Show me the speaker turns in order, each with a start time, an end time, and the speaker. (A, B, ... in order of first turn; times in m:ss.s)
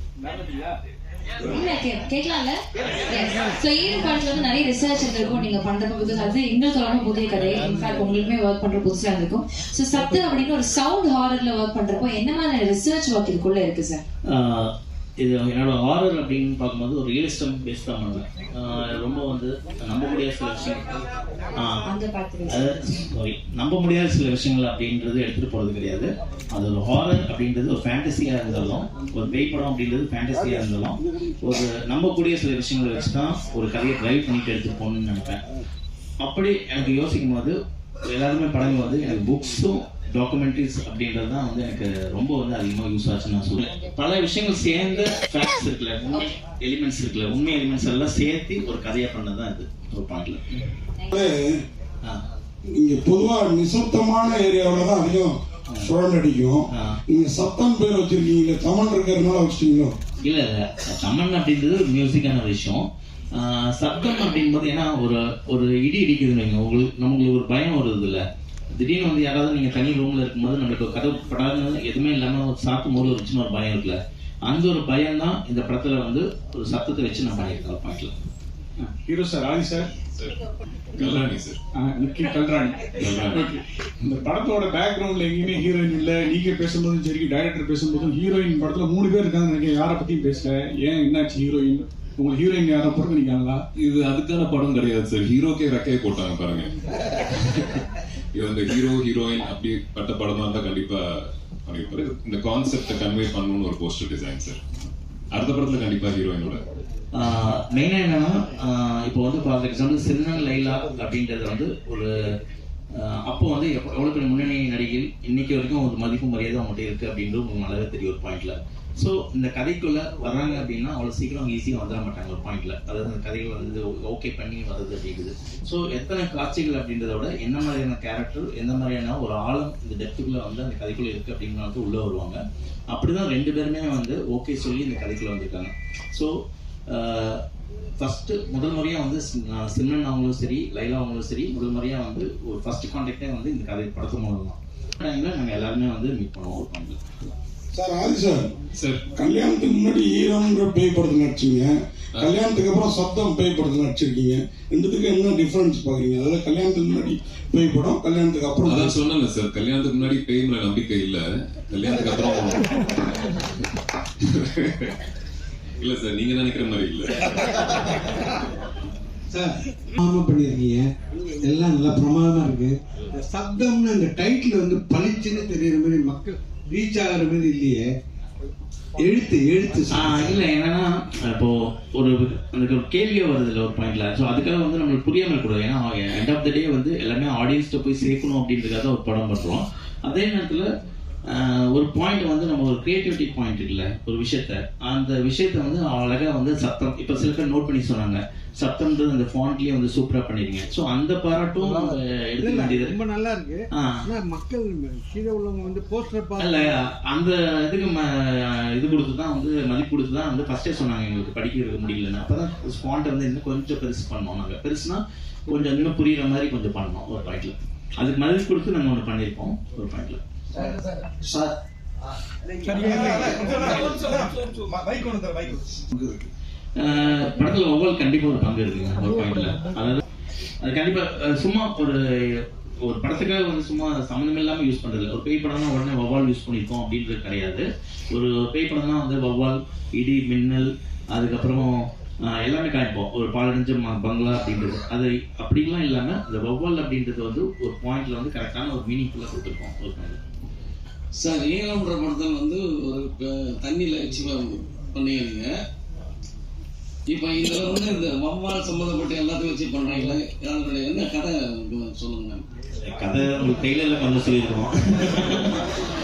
0:01.4-0:02.6 A
0:03.1-0:14.0 A
0:14.3-0:14.7 B
0:15.2-0:20.9 B
0:21.6-0:21.8 B
0:21.9-0:22.7 A
0:22.5-0:35.4 B
0:36.2-0:37.6 B
0:38.1-0:50.6 B
0:51.1-0:51.4 C
0:52.8-0:59.9 C
1:00.2-1:02.8 B
1:03.4-1:08.2 B
1:08.8-1:18.1 B
1:18.8-1:19.9 D
1:21.0-1:21.6 E
1:21.8-1:22.8 D
1:23.0-1:23.5 E
1:23.3-1:33.6 D
1:33.8-1:36.7 E
1:38.4-1:44.6 E
1:45.3-1:46.6 E
1:47.2-1:52.1 B
1:53.0-2:12.4 B
2:12.9-2:16.3 B
2:16.9-2:17.4 B
2:18.0-2:27.0 B
2:27.7-2:28.5 C
2:29.2-2:39.0 C
2:38.7-2:43.3 E
2:44.2-2:44.9 E
2:45.8-2:47.3 E
2:50.1-2:50.8 F
2:51.4-2:57.8 F
2:59.0-3:00.1 F
2:59.9-3:10.6 B
3:11.3-3:23.0 B
3:21.6-3:23.6 F
3:23.7-3:24.0 B
3:24.1-3:26.7 F
3:26.4-3:40.2 B
3:42.7-3:45.1 F
3:46.8-3:50.0 B
3:50.6-4:01.8 B
4:02.3-4:10.2 B
4:11.2-4:15.5 G
4:17.1-4:22.4 G
4:22.8-4:25.7 B